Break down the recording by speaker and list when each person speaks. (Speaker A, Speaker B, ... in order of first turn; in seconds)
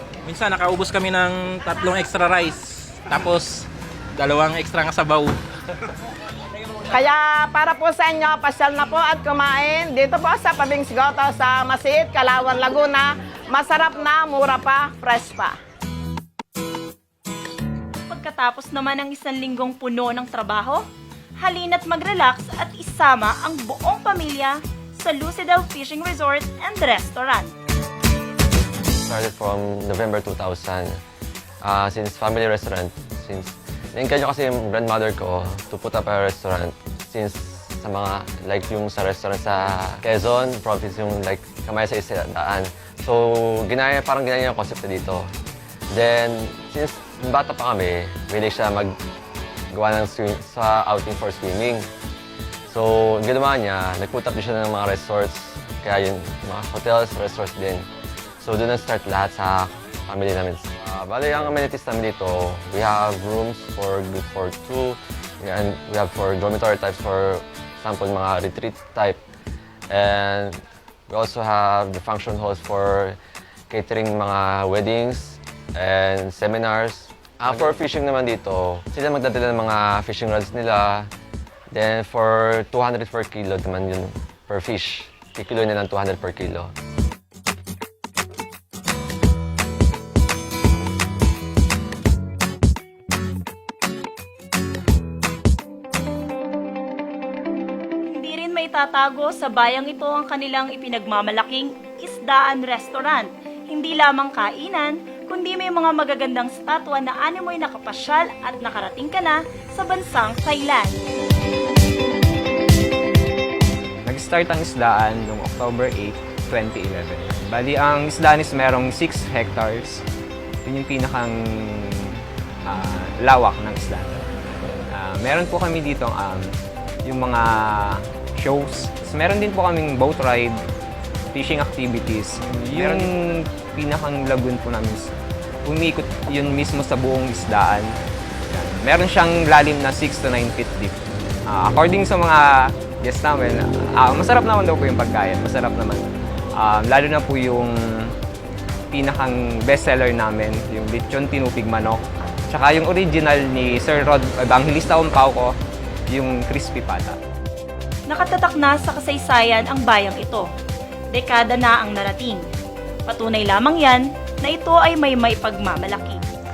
Speaker A: 0.2-3.6, 4.2-5.4
Speaker B: 6.9-15.6
Speaker C: 18.1-20.9, 21.4-27.5, 98.1-111.0, 158.1-160.5, 161.1-162.4, 163.1-166.2
Speaker D: 29.0-31.0, 31.6-45.3, 45.9-48.9, 49.7-51.9, 52.7-57.9, 58.4-69.2, 69.9-73.2, 73.7-81.1, 81.7-86.7
Speaker E: 114.0-120.0, 120.6-124.3, 124.9-126.5, 127.0-130.6, 131.3-135.1, 135.6-138.0, 138.5-148.1, 148.9-155.6, 156.1-157.2